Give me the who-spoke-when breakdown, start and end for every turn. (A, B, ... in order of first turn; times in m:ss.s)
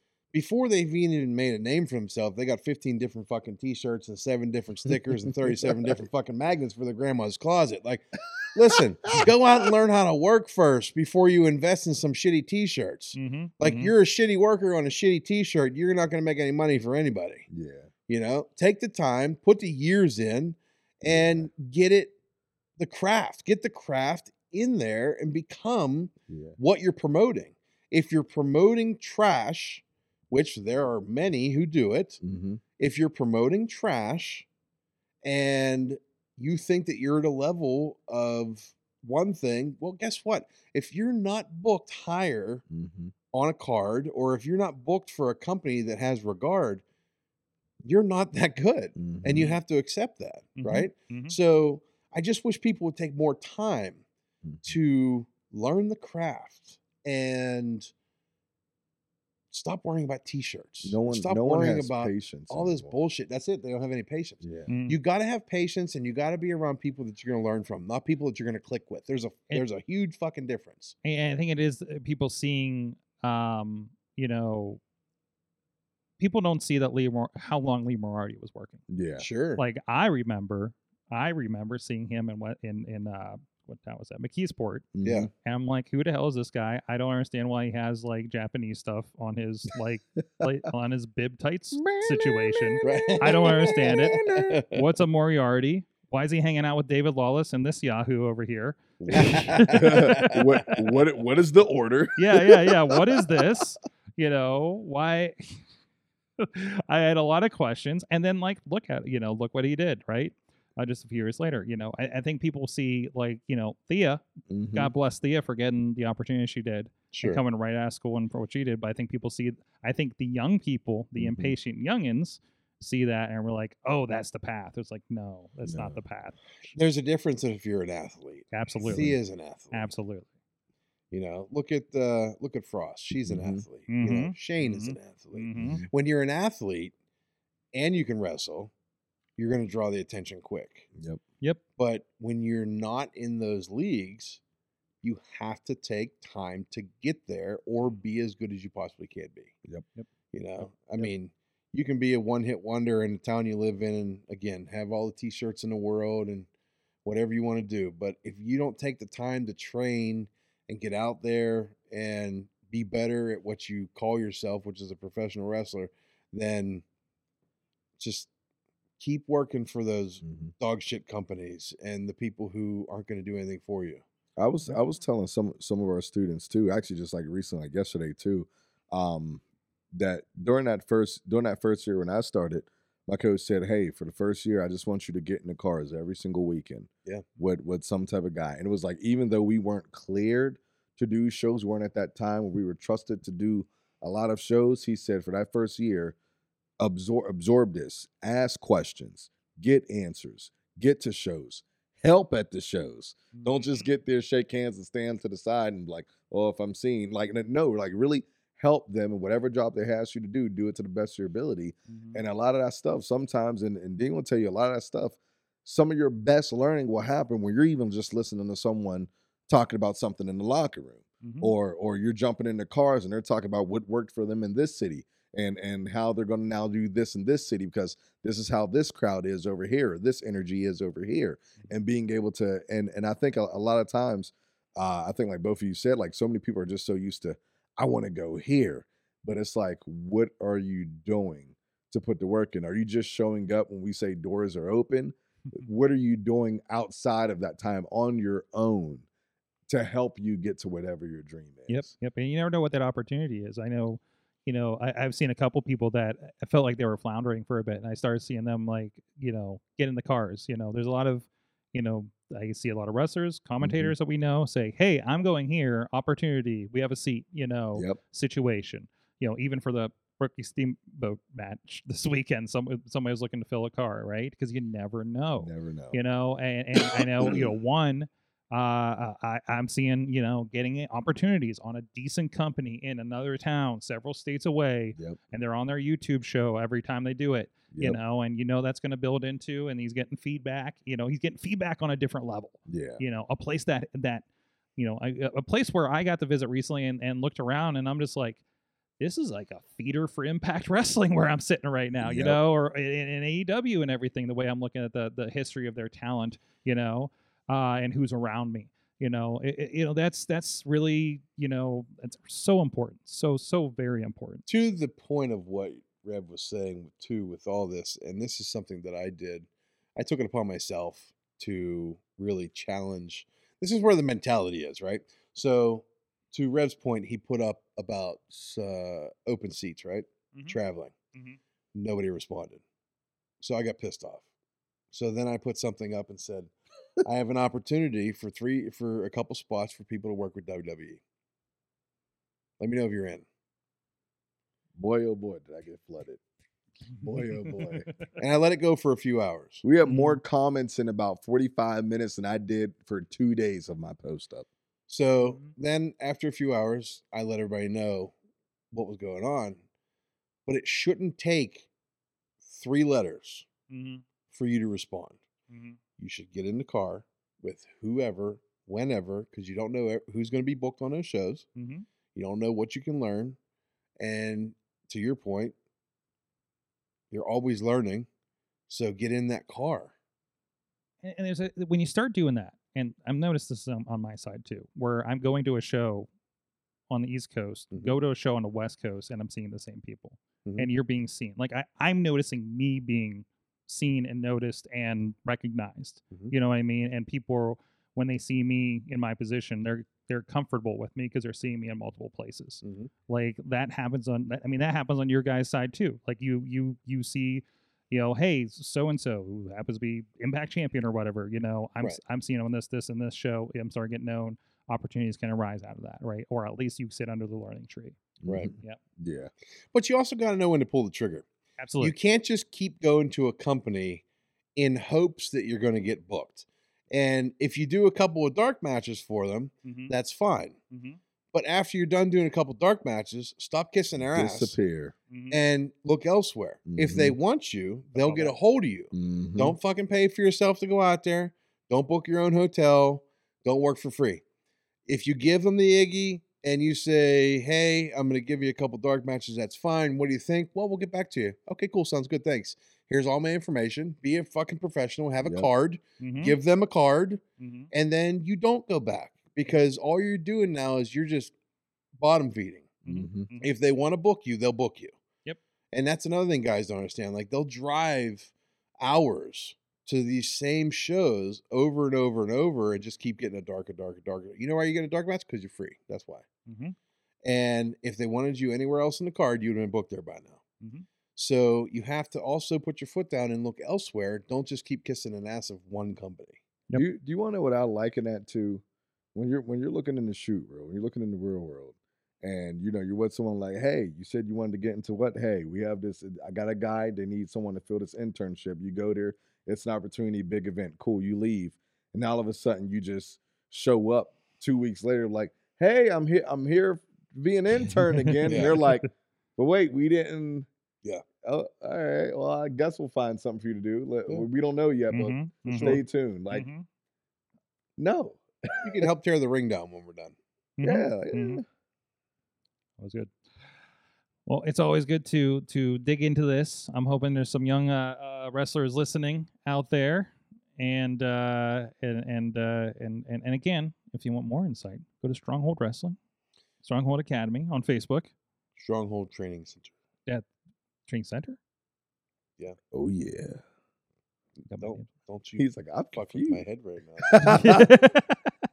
0:00.3-0:17.5 A
0:05.4-0:06.0 B
0:13.2-0:13.9 C
0:17.5-0:17.9 B
0:18.1-0:22.2 A
0:21.1-0:21.5 B
0:22.8-0:32.2 A
0:26.3-0:26.6 B
0:32.2-0:32.6 B
0:32.8-0:34.5 A
0:35.2-0:42.6 A
0:42.7-0:43.1 B
0:43.3-0:46.8 A
0:47.8-0:54.0 A
0:49.0-0:49.6 B
0:50.6-0:51.4 C
0:54.4-0:54.8 B
0:54.6-0:57.9 A
0:59.5-1:11.0 A
1:00.8-1:03.0 B
1:04.4-1:04.7 B
1:04.7-1:05.0 C
1:11.0-1:14.8 C
1:16.2-1:18.8 C
1:18.9-1:19.3 B
1:19.2-1:19.6 A
1:19.6-1:24.9 C
1:24.9-1:25.3 B
1:25.0-1:25.3 A
1:25.4-1:40.4 C
1:31.7-1:34.6 B
1:32.8-1:34.8 A
1:39.0-1:40.8 A
1:39.1-1:43.0 B
1:42.2-1:45.6 C
1:46.4-2:06.8 C
1:54.5-1:54.9 B
1:57.1-1:57.4 A
2:01.2-2:01.6 B
2:05.7-2:06.0 B
2:06.8-2:09.9 A
2:08.5-2:09.1 C
2:08.9-2:09.2 B
2:09.7-2:10.3 C
2:11.1-2:16.9 A
2:13.3-2:13.6 B
2:13.9-2:15.8 C
2:15.6-2:15.9 B
2:17.7-2:18.7 A
2:19.4-2:20.9 A
2:21.0-2:21.2 B
2:21.8-2:24.4 A
2:25.0-2:29.6 A
2:30.3-2:36.5 A
2:30.6-2:31.1 C
2:37.0-2:46.8 A
2:48.0-2:48.3 A
2:49.0-2:54.0 A
2:50.2-2:50.5 B
2:54.4-2:59.4 B
2:59.9-3:16.2 B
3:16.8-4:09.1 B
3:23.3-3:23.9 C
3:31.9-3:32.2 C
3:41.2-3:41.5 C
4:09.7-4:11.9 B
4:11.7-4:54.2 C
4:23.6-4:23.9 B
4:35.4-4:36.0 B
4:37.2-4:37.5 B
4:47.7-4:48.0 B
4:52.7-4:53.0 B
4:54.8-4:58.4 C
4:59.0-5:14.4 C
5:02.0-5:02.4 B
5:14.5-5:30.9 A
5:31.7-5:32.6 A
5:33.4-5:34.2 A
5:34.9-5:41.0 A
5:42.6-5:43.2 A
5:44.8-5:46.2 B
5:47.0-5:48.1 C
5:47.0-5:47.9 B
5:48.2-5:49.6 A
5:49.6-5:54.5 B
5:49.8-5:50.2 C
5:54.9-5:58.1 A
5:55.2-5:55.5 C
5:58.7-5:59.6 A
6:00.5-6:01.7 A
6:02.4-6:03.5 A
6:03.7-6:04.0 C
6:04.3-6:05.2 A
6:05.5-6:05.8 C
6:06.0-6:11.5 A
6:11.6-6:11.9 C
6:12.1-6:13.4 A
6:14.0-6:15.6 A
6:17.1-6:18.1 A
6:18.7-6:19.9 A
6:21.0-6:26.1 C
6:26.9-6:58.0 C
6:42.6-6:42.9 A
6:58.2-6:59.3 B
6:58.3-6:58.5 A
6:59.7-7:01.3 A
7:01.6-7:01.9 C
7:01.8-7:04.0 A
7:04.6-7:10.6 A
7:09.6-7:09.9 C
7:10.7-7:11.0 C
7:11.3-7:14.6 A
7:14.0-7:15.0 B
7:15.1-7:15.4 C
7:15.3-7:24.2 A
7:16.7-7:17.2 B
7:18.0-7:18.4 C
7:18.9-7:19.6 B
7:24.9-7:41.3 A
7:35.2-7:35.5 B
7:36.0-7:36.4 C
7:37.4-7:37.7 C
7:42.0-7:42.8 A
7:42.8-7:43.5 C
7:42.9-7:43.3 B
7:43.4-7:45.0 A
7:45.7-7:56.3 A
7:56.5-7:56.8 C
7:57.2-8:00.4 A
8:00.6-8:00.9 C
8:01.2-8:06.4 A
8:06.7-8:08.6 B
8:09.2-8:30.5 B
8:27.7-8:28.9 C
8:28.3-8:28.6 A
8:31.2-8:36.5 B
8:34.9-8:35.8 C
8:35.5-8:35.8 A
8:36.3-8:36.6 C
8:37.8-8:38.9 B
8:38.6-8:40.2 A
8:40.6-8:41.4 C
8:40.6-8:41.4 B
8:42.8-8:43.1 C
8:44.3-8:56.0 C
8:56.6-8:58.1 C
8:58.6-8:59.7 A
9:00.9-9:01.4 C
9:02.7-9:03.4 B
9:04.4-9:07.2 A
9:04.5-9:04.9 C
9:05.4-9:06.4 B
9:07.0-9:07.6 B
9:07.2-9:08.2 C